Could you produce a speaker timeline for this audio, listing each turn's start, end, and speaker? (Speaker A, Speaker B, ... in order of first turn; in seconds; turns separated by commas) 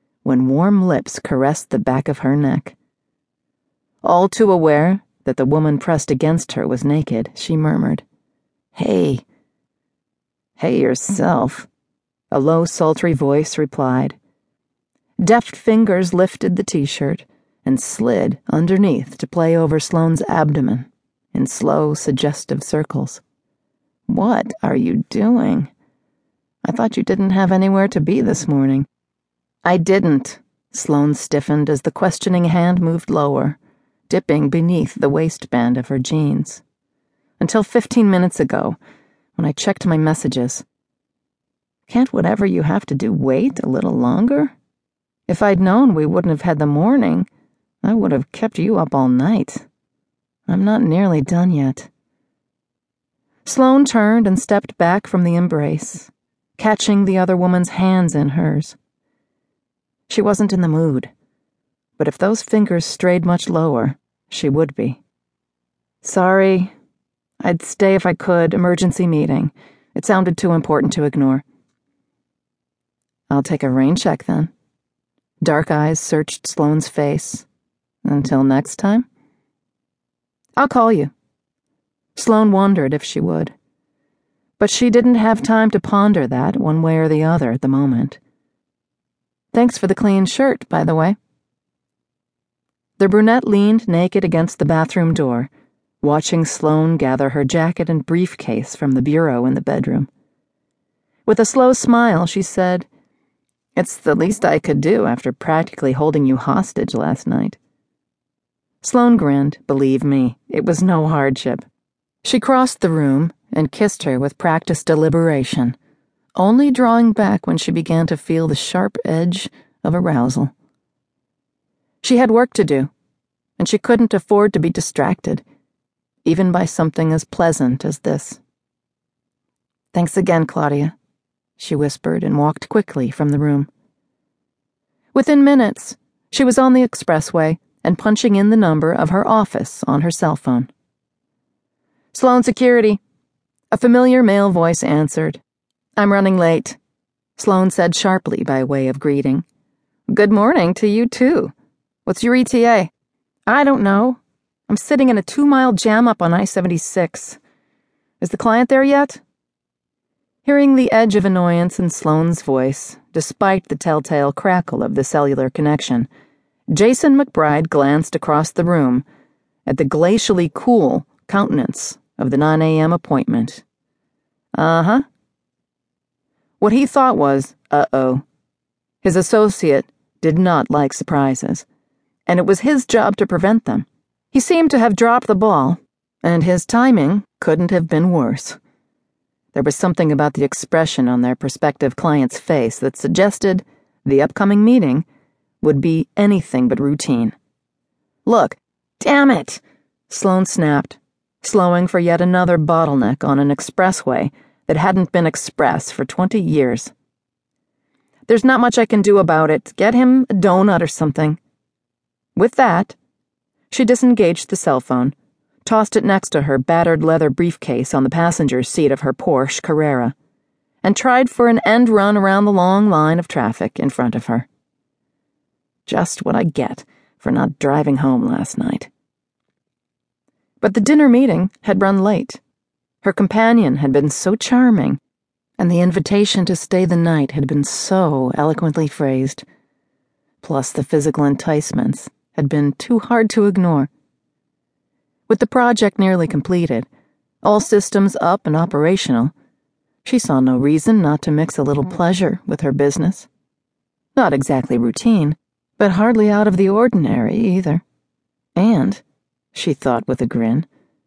Speaker A: 0.2-2.8, Speaker A: 4.0-8.0, Speaker A: 8.8-9.2, Speaker A: 10.6-11.7, Speaker A: 12.3-14.2, Speaker A: 15.2-23.2, Speaker A: 24.1-25.7, Speaker A: 26.6-28.9, Speaker A: 29.6-33.6, Speaker A: 34.1-36.6, Speaker A: 37.4-38.8, Speaker A: 39.4-40.6, Speaker A: 41.9-44.5, Speaker A: 45.3-47.3, Speaker A: 47.8-49.6, Speaker A: 50.5-51.9, Speaker A: 53.5-58.8, Speaker A: 60.1-61.1, Speaker A: 62.0-65.0, Speaker A: 66.0-66.7, Speaker A: 67.4-71.4, Speaker A: 73.3-74.5, Speaker A: 75.4-77.5, Speaker A: 78.0-79.1, Speaker A: 80.6-81.1, Speaker A: 82.2-83.5, Speaker A: 84.6-88.2, Speaker A: 89.5-91.2, Speaker A: 93.0-95.5, Speaker A: 96.0-100.1, Speaker A: 101.3-102.9, Speaker A: 103.8-107.6, Speaker A: 108.8-111.6, Speaker A: 112.2-115.8, Speaker A: 116.4-120.5, Speaker A: 122.0-122.9, Speaker A: 123.6-125.4, Speaker A: 126.2-128.4, Speaker A: 129.9-130.9, Speaker A: 131.6-133.7, Speaker A: 135.1-140.7, Speaker A: 142.1-143.0, Speaker A: 143.7-145.4, Speaker A: 146.0-146.8, Speaker A: 147.4-149.5, Speaker A: 150.1-151.5, Speaker A: 152.1-152.9, Speaker A: 153.5-157.4, Speaker A: 158.2-159.2, Speaker A: 160.4-166.1, Speaker A: 166.7-169.0, Speaker A: 169.7-173.6, Speaker A: 174.5-175.1, Speaker A: 176.6-178.2, Speaker A: 179.0-181.7, Speaker A: 182.3-188.6, Speaker A: 189.5-195.1, Speaker A: 195.6-197.3, Speaker A: 198.2-206.9, Speaker A: 208.3-211.4, Speaker A: 212.4-213.0, Speaker A: 213.7-220.2, Speaker A: 220.8-224.5, Speaker A: 225.9-228.9, Speaker A: 230.6-232.4, Speaker A: 233.0-235.0, Speaker A: 235.6-239.4, Speaker A: 240.4-243.9, Speaker A: 245.3-246.9, Speaker A: 247.4-249.3, Speaker A: 250.0-253.3, Speaker A: 254.2-257.8, Speaker A: 258.6-259.0, Speaker A: 259.5-260.7